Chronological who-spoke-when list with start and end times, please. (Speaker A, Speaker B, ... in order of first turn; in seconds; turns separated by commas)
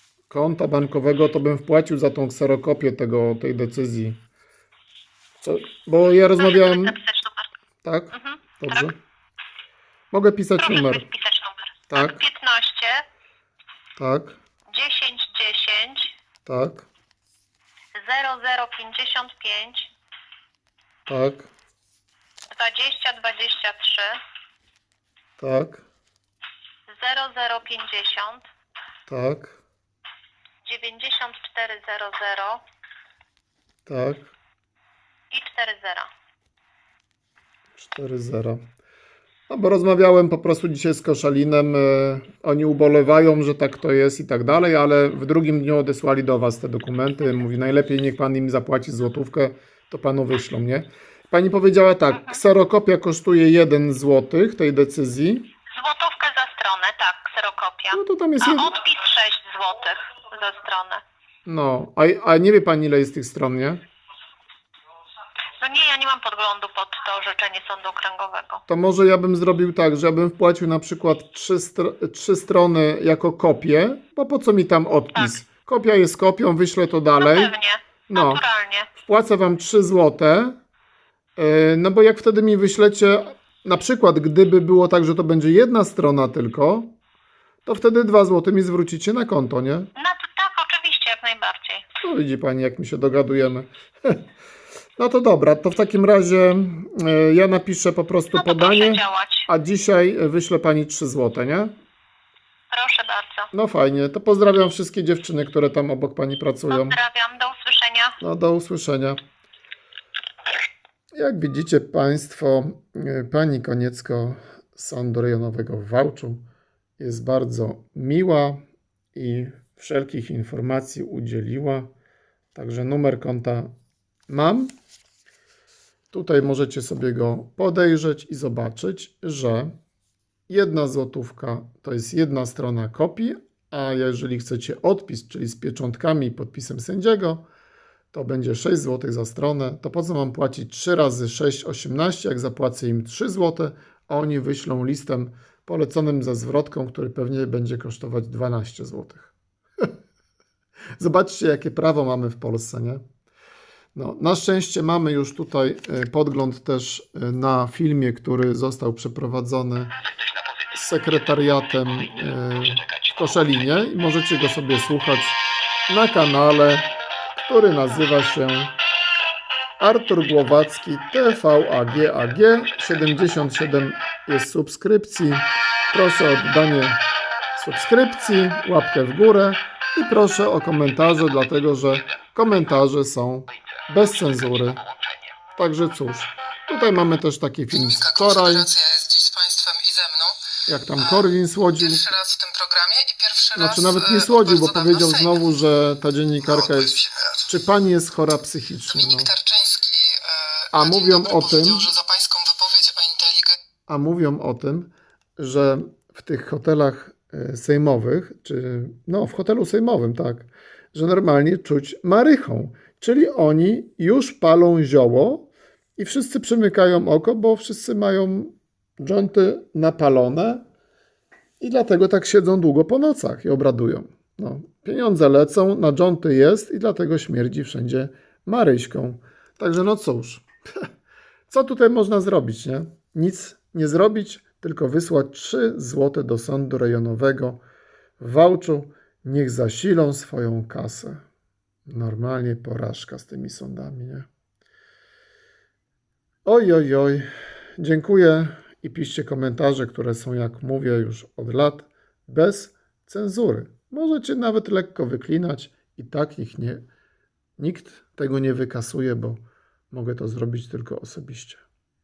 Speaker A: 0.3-4.2, Speaker A: 5.4-7.0, Speaker B: 6.3-7.5, Speaker A: 7.8-9.0, Speaker B: 8.1-8.9, Speaker A: 10.1-11.1, Speaker B: 10.6-13.1, Speaker A: 11.9-12.2, Speaker A: 14.0-14.4, Speaker B: 14.7-16.1, Speaker A: 16.5-16.9, Speaker B: 17.9-19.9, Speaker A: 21.1-21.5, Speaker B: 22.5-24.2, Speaker A: 25.4-25.9, Speaker B: 26.9-28.5, Speaker A: 29.1-29.6, Speaker B: 30.6-32.6, Speaker A: 33.9-34.4, Speaker B: 35.3-36.1, Speaker A: 37.8-38.6, Speaker A: 39.5-55.5, Speaker B: 52.1-52.4, Speaker B: 55.7-61.0, Speaker A: 57.9-58.8, Speaker A: 61.5-63.8, Speaker B: 65.6-68.6, Speaker A: 68.7-77.5, Speaker B: 75.2-75.4, Speaker B: 77.2-78.9, Speaker A: 78.1-78.4, Speaker A: 79.0-80.6, Speaker A: 81.4-86.9, Speaker A: 87.7-89.9, Speaker B: 90.0-91.8, Speaker A: 92.0-94.2, Speaker A: 95.0-101.7, Speaker B: 98.3-99.5, Speaker B: 102.7-103.5, Speaker A: 103.5-107.0, Speaker B: 106.7-108.2, Speaker A: 108.2-109.2, Speaker A: 111.1-116.4, Speaker A: 117.0-118.6, Speaker A: 119.1-121.9, Speaker A: 122.5-123.7, Speaker A: 124.3-124.7, Speaker A: 126.1-129.7, Speaker A: 130.5-137.4, Speaker A: 138.1-149.9, Speaker A: 151.0-153.0, Speaker A: 153.9-159.9, Speaker A: 160.7-168.8, Speaker A: 169.8-177.0, Speaker A: 177.6-184.8, Speaker A: 185.6-188.7, Speaker C: 187.7-190.4, Speaker A: 190.7-192.1, Speaker C: 191.0-191.2, Speaker C: 191.8-195.4, Speaker A: 193.5-199.3, Speaker C: 198.9-203.6, Speaker A: 200.7-201.9, Speaker A: 203.9-220.7, Speaker A: 221.6-230.5, Speaker A: 231.5-237.6, Speaker A: 238.2-241.2, Speaker A: 241.9-244.3, Speaker A: 246.4-247.3, Speaker A: 247.8-256.9, Speaker A: 257.6-259.4, Speaker A: 259.9-261.6